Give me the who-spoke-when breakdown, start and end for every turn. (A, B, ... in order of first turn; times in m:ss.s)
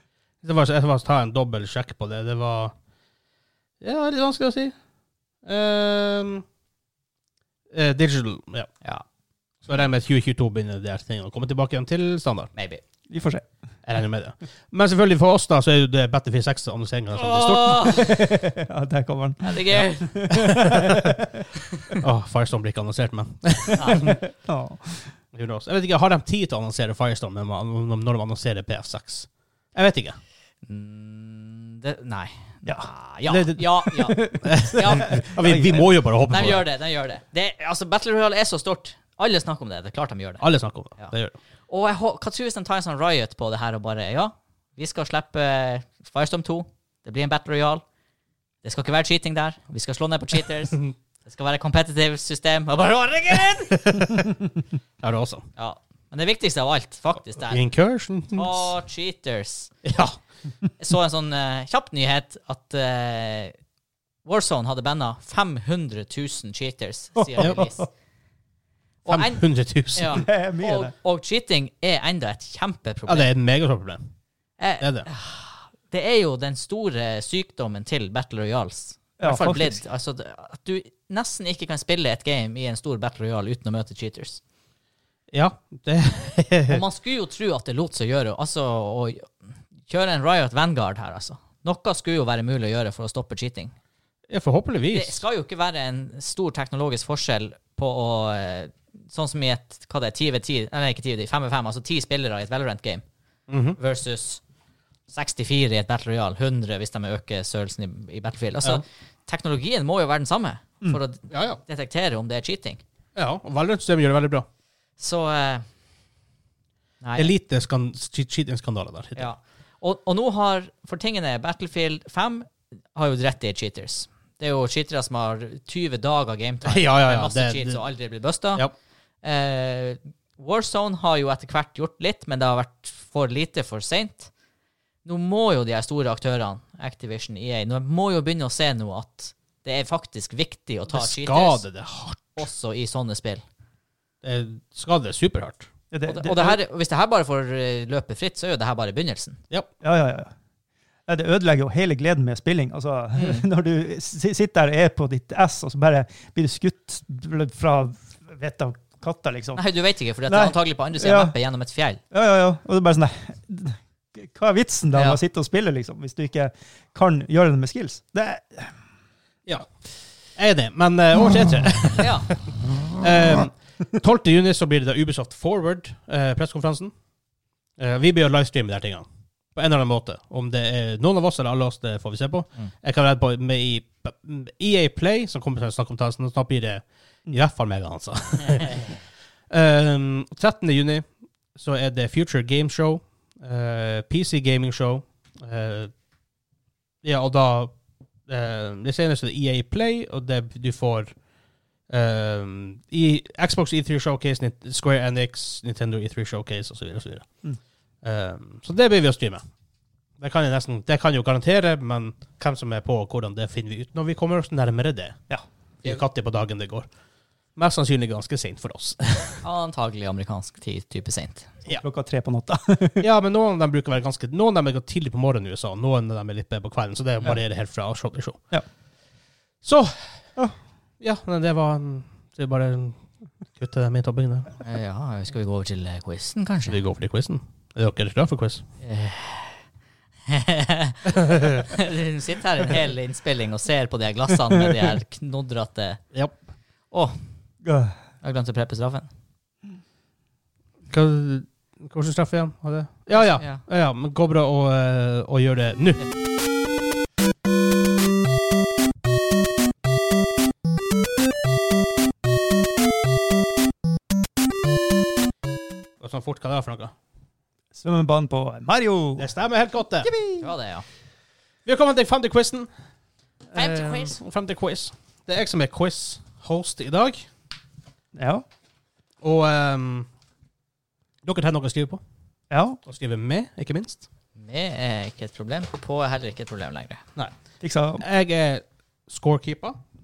0:00.4-0:02.7 A
0:03.8-0:04.7 A
0:05.4-0:06.4 A
0:07.7-0:08.7 A
0:09.6-0:12.5 A
0:12.6-0:12.8 B
0:13.1-0:13.4 C
0:13.8-0:18.1 A
0:17.2-0:18.2 B
0:18.0-0:22.0 C
0:19.4-0:20.2 B
0:20.3-0:21.2 A
0:21.9-0:24.2 A
0:23.8-0:24.1 B
0:23.9-0:25.1 C
0:25.3-0:30.2 A
0:30.6-0:35.2 B
0:33.3-0:36.7 A
0:34.1-0:35.9 C
0:36.3-0:40.4 B
0:40.4-0:41.3 A
0:41.7-0:47.8 B
0:48.6-0:54.0 B
0:53.7-0:54.3 A
0:55.0-0:55.4 A
0:55.6-0:57.6 B
0:57.4-0:58.7 A
0:58.3-0:59.7 B
0:59.8-1:00.2 A
1:00.8-1:03.5 B
1:04.2-1:07.9 B
1:07.2-1:07.9 C
1:09.0-1:09.4 B
1:09.0-1:10.2 A
1:09.9-1:13.3 B
1:10.1-1:10.9 C
1:13.1-1:14.0 A
1:14.6-1:24.4 B
1:14.8-1:15.1 A
1:19.2-1:19.8 C
1:25.3-1:26.8 A
1:26.7-1:29.3 B
1:29.8-1:33.7 B
1:34.3-1:35.2 A
1:34.9-1:43.0 B
1:43.5-1:43.8 A
1:43.8-1:44.4 B
1:45.1-1:52.8 B
1:51.3-1:51.6 A
1:53.2-1:54.4 A
1:55.0-1:55.6 B
1:57.0-1:57.3 B
1:57.2-1:59.3 A
1:59.2-2:08.6 B
2:06.6-2:07.8 A
2:09.2-2:14.3 B
2:15.0-2:21.6 B
2:20.9-2:22.4 A
2:22.4-2:23.4 B
2:24.2-2:25.7 A
2:25.9-2:26.6 C
2:26.1-2:29.4 B
2:29.8-2:30.3 C
2:31.1-2:39.6 C
2:33.1-2:33.5 B
2:39.5-2:42.0 B
2:40.3-2:41.3 C
2:42.1-2:48.7 C
2:44.9-2:45.2 B
2:50.4-2:56.9 A
2:52.0-2:52.3 B
2:57.8-3:09.0 A
3:09.5-3:15.9 A
3:17.0-3:17.7 A
3:18.3-3:21.1 A
3:21.9-3:27.3 A
3:28.0-3:29.4 A
3:30.2-3:35.2 A
3:35.8-3:36.9 A
3:37.6-3:39.4 A
3:39.4-3:41.5 B
3:41.8-3:43.0 C
3:43.0-3:48.4 A
3:49.6-3:50.2 A
3:51.0-3:53.0 A
3:53.5-3:54.5 A
3:54.6-3:56.8 B
3:56.7-3:58.6 A
3:58.8-3:59.6 B
4:00.3-4:06.0 B
4:01.2-4:01.6 A
4:06.9-4:07.2 B
4:07.6-4:08.0 C
4:08.2-4:09.1 B
4:10.9-4:16.0 A
4:13.1-4:13.6 B
4:26.0-4:26.9 A
4:27.7-4:29.3 C
4:29.2-4:30.1 A
4:30.0-4:30.5 C
4:30.4-4:30.8 B
4:31.6-4:32.7 A
4:33.5-4:37.3 A
4:33.5-4:34.2 B
4:38.1-4:38.4 C
4:39.2-4:40.1 A
4:41.2-4:42.0 A
4:42.5-4:42.8 C
4:42.8-4:44.0 A
4:44.4-4:47.0 B
4:47.6-4:48.0 C
4:48.0-4:49.8 A